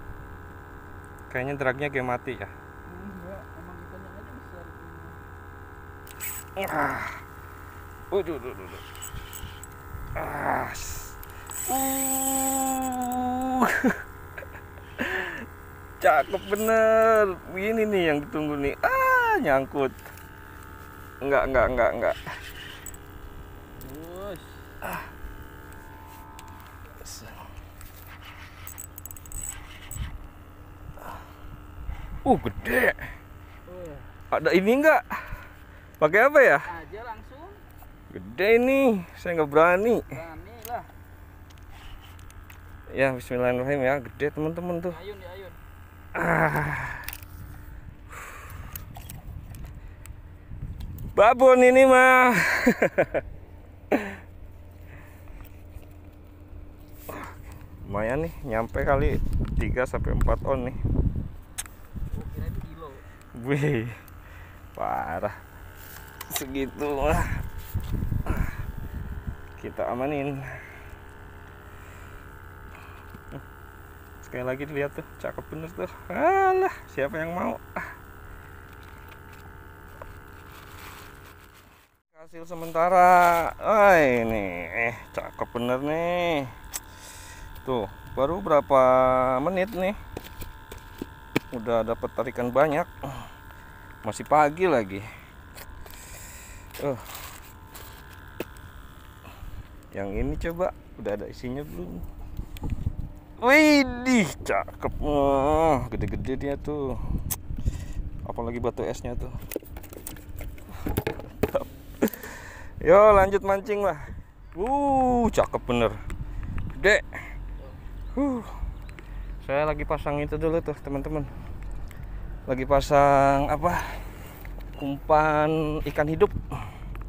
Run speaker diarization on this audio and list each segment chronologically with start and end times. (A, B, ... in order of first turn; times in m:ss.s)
0:01.3-0:02.5 A
0:02.9-0:05.2 B
0:06.6-0:07.2 A
0:08.1-0:08.8 A
0:10.2-0:14.0 A
0:15.0-0:15.5 A
0:16.0-0:20.0 A
0:21.2-0:22.2 A
0:23.8-0:24.6 B
0:27.0-0:27.4 A
0:32.2-0:33.1 A
0:33.7-0:34.1 B
0:34.3-0:35.5 A
0:36.0-0:36.7 A
0:36.7-0:37.6 B
0:38.1-0:40.2 A
0:40.1-0:40.9 B
0:42.9-0:45.0 A
0:44.8-0:45.6 B
0:46.1-0:47.1 A
0:51.2-0:53.2 A
0:53.9-0:54.2 A
0:57.1-1:00.8 A
1:02.1-1:03.0 B
1:03.3-1:04.0 A
1:04.8-1:05.4 A
1:06.3-1:07.4 A
1:08.2-1:08.6 A
1:09.6-1:10.7 A
1:14.2-1:18.0 A
1:22.1-1:26.6 A
1:27.6-1:30.0 A
1:31.5-1:33.3 A
1:34.0-1:35.1 A
1:36.8-1:37.3 A
1:39.9-1:42.1 A
1:43.4-1:47.2 A
1:48.2-1:49.4 A
1:51.5-1:56.0 A
1:56.8-1:57.4 A
1:58.1-1:58.7 A
1:59.4-2:01.3 A
2:02.5-2:04.1 A
2:04.8-2:06.8 A